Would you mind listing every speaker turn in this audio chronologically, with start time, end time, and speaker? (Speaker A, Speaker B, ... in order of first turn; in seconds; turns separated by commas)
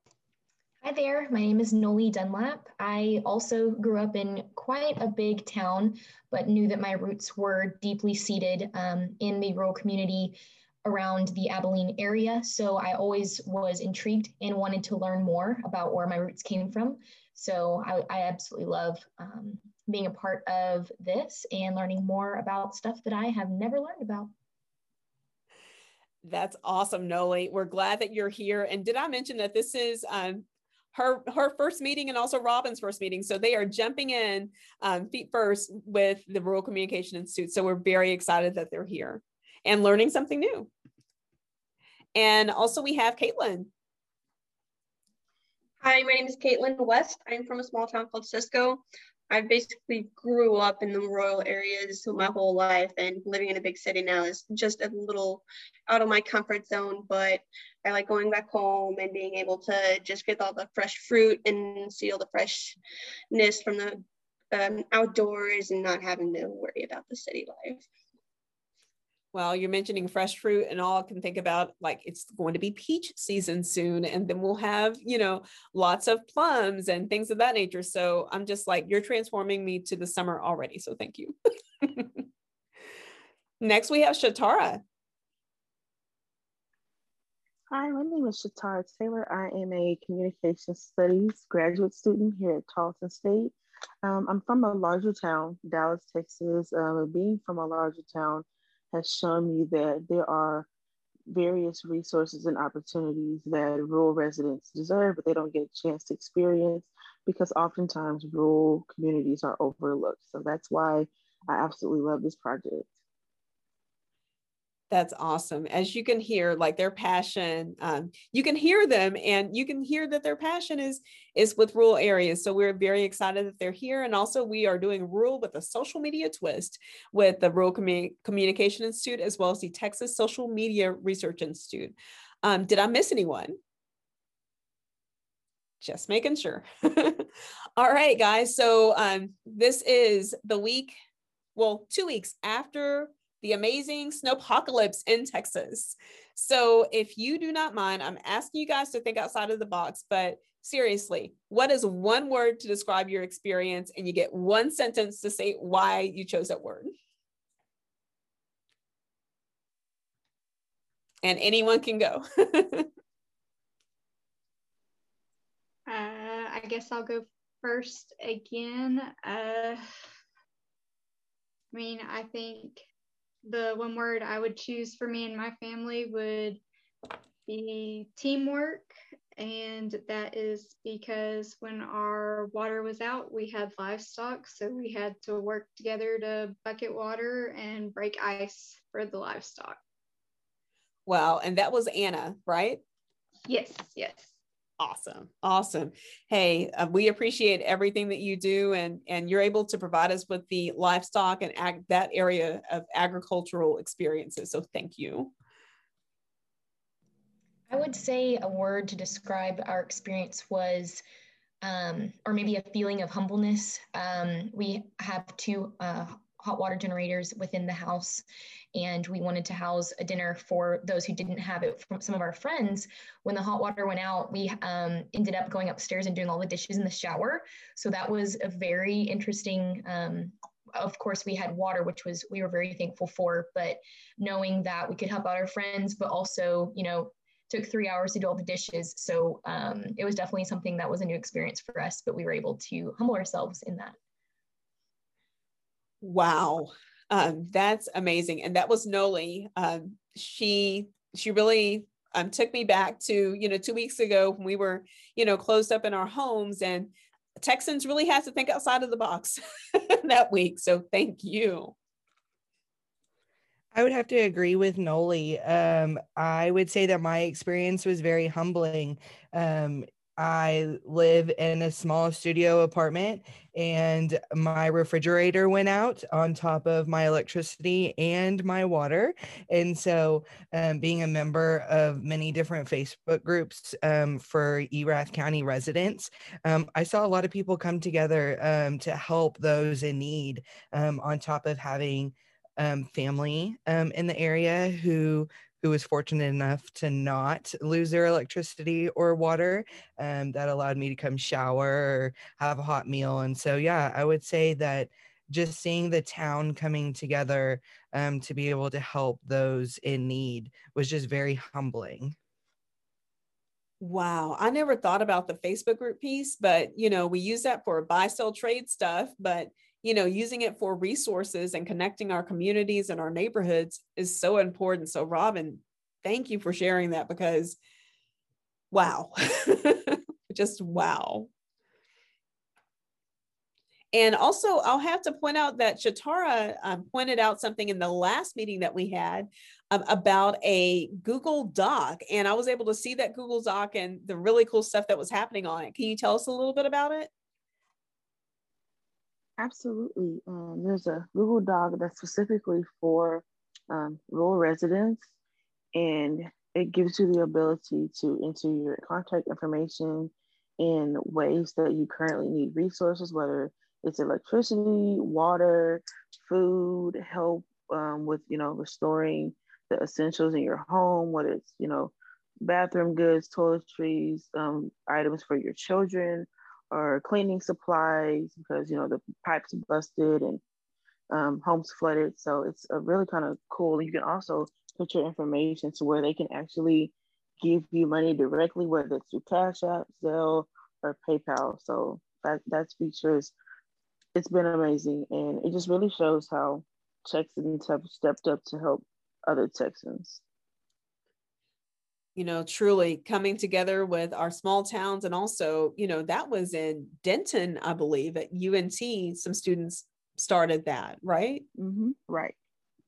Speaker A: 0.8-24.3, Speaker B: 26.2-40.7, Speaker B: 42.1-43.7, Speaker C: 45.8-62.8, Speaker C: 63.3-67.9, Speaker B: 69.3-82.2, Speaker B: 83.6-84.8, Speaker D: 87.7-100.7, Speaker D: 101.3-112.9, Speaker B: 114.9-133.6, Speaker B: 135.8-137.3, Speaker B: 137.8-140.9, Speaker B: 141.6-156.9, Speaker B: 161.2-162.9, Speaker E: 165.9-169.8, Speaker E: 171.7-172.8, Speaker E: 173.4-176.6, Speaker E: 177.5-189.8, Speaker B: 191.1-192.8, Speaker E: 193.5-194.3, Speaker B: 194.8-205.3, Speaker A: 207.7-211.0, Speaker A: 211.6-243.9, Speaker B: 246.0-256.9, Speaker B: 257.4-261.8, Speaker F: 263.7-312.1, Speaker B: 313.8-327.6, Speaker B: 328.7-331.3, Speaker B: 333.9-347.1, Speaker D: 349.4-355.1, Speaker D: 355.7-380.4, Speaker D: 381.1-393.3, Speaker D: 394.1-400.2, Speaker B: 402.2-411.4, Speaker D: 411.6-412.4